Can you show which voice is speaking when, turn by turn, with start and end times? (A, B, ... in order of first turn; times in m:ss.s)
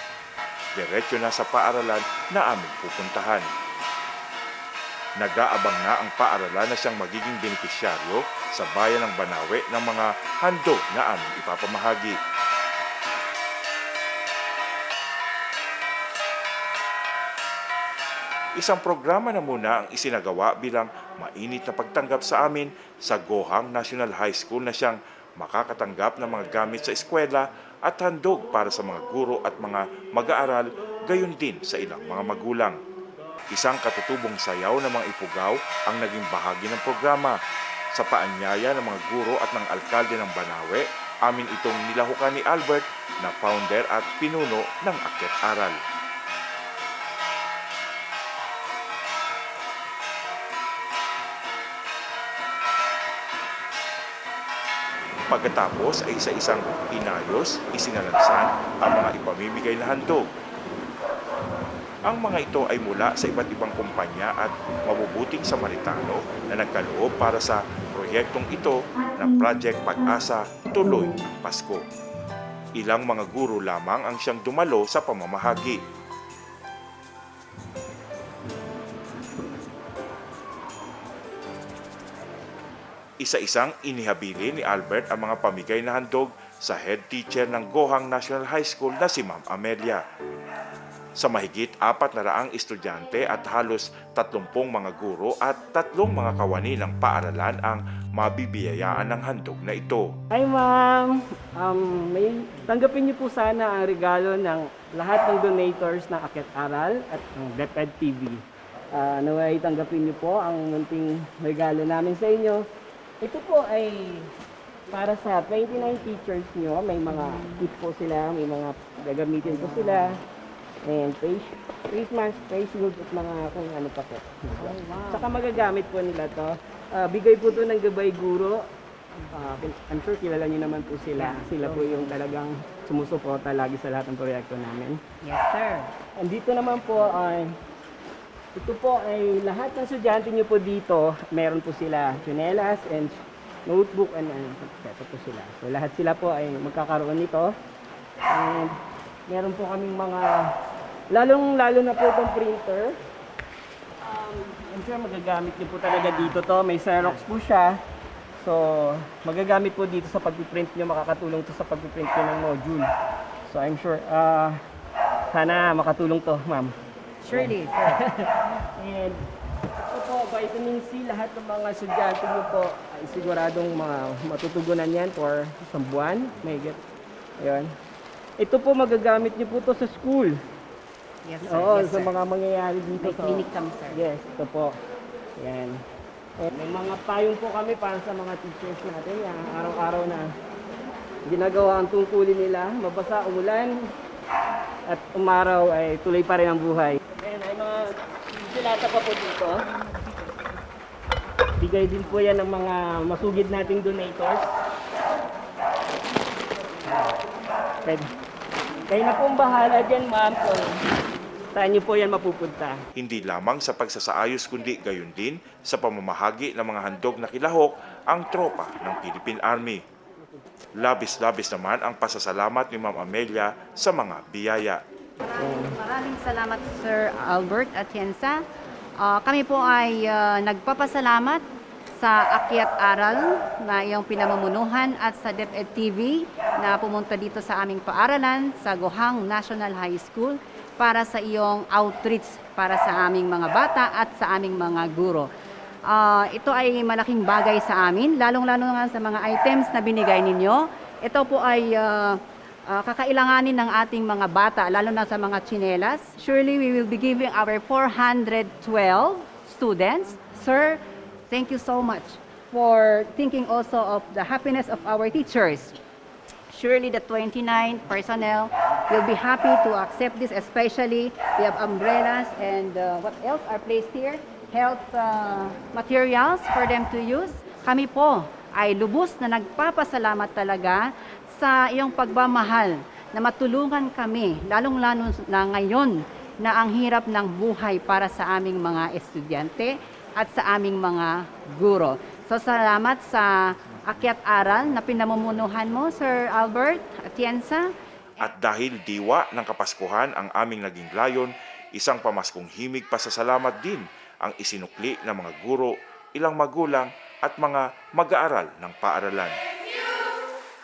0:00.7-0:03.5 A
0:05.2-0:12.2 A
0:18.6-0:32.8 A
0:33.5-0:37.4 A
0:37.9-0:45.8 A
0:55.3-1:00.2 A
1:02.0-1:11.8 A
1:12.8-1:15.8 A
1:23.2-1:30.0 A
1:31.2-1:40.1 A
1:40.3-1:52.6 B
1:53.2-1:54.3 B
1:54.9-2:00.2 B
1:57.1-1:57.7 C
1:59.4-2:00.2 C
2:00.8-2:08.6 B
2:04.6-2:05.4 C
2:09.2-2:09.5 C
2:09.3-2:15.0 B
2:11.2-2:12.2 C
2:15.2-2:15.9 C
2:16.2-2:17.5 B
2:18.5-2:27.5 B
2:28.3-2:28.7 B
2:29.3-2:30.5 B
2:31.1-2:33.0 B
2:34.0-2:37.8 B
2:35.8-2:36.5 C
2:38.4-2:42.9 B
2:43.5-2:44.6 B
2:45.3-2:46.7 B
2:47.2-2:48.0 C
2:47.3-2:49.2 B
2:49.9-2:56.8 B
2:57.4-2:57.7 B
2:58.4-3:00.3 B
3:01.2-3:02.1 C
3:01.5-3:04.7 B
3:03.0-3:04.0 C
3:05.4-3:05.8 B
3:06.4-3:10.3 B
3:11.3-3:13.7 B
3:14.9-3:19.6 B
3:21.6-3:24.5 B
3:28.9-3:30.7 B
3:31.5-3:32.8 B
3:32.9-3:39.8 A
3:40.8-3:44.8 A
3:45.2-3:48.4 C
3:45.4-3:45.8 B
3:49.0-3:51.4 C
3:52.0-4:05.2 C
4:05.9-4:12.2 C
4:12.7-4:25.8 C
4:26.5-4:57.7 C
4:58.2-5:09.4 A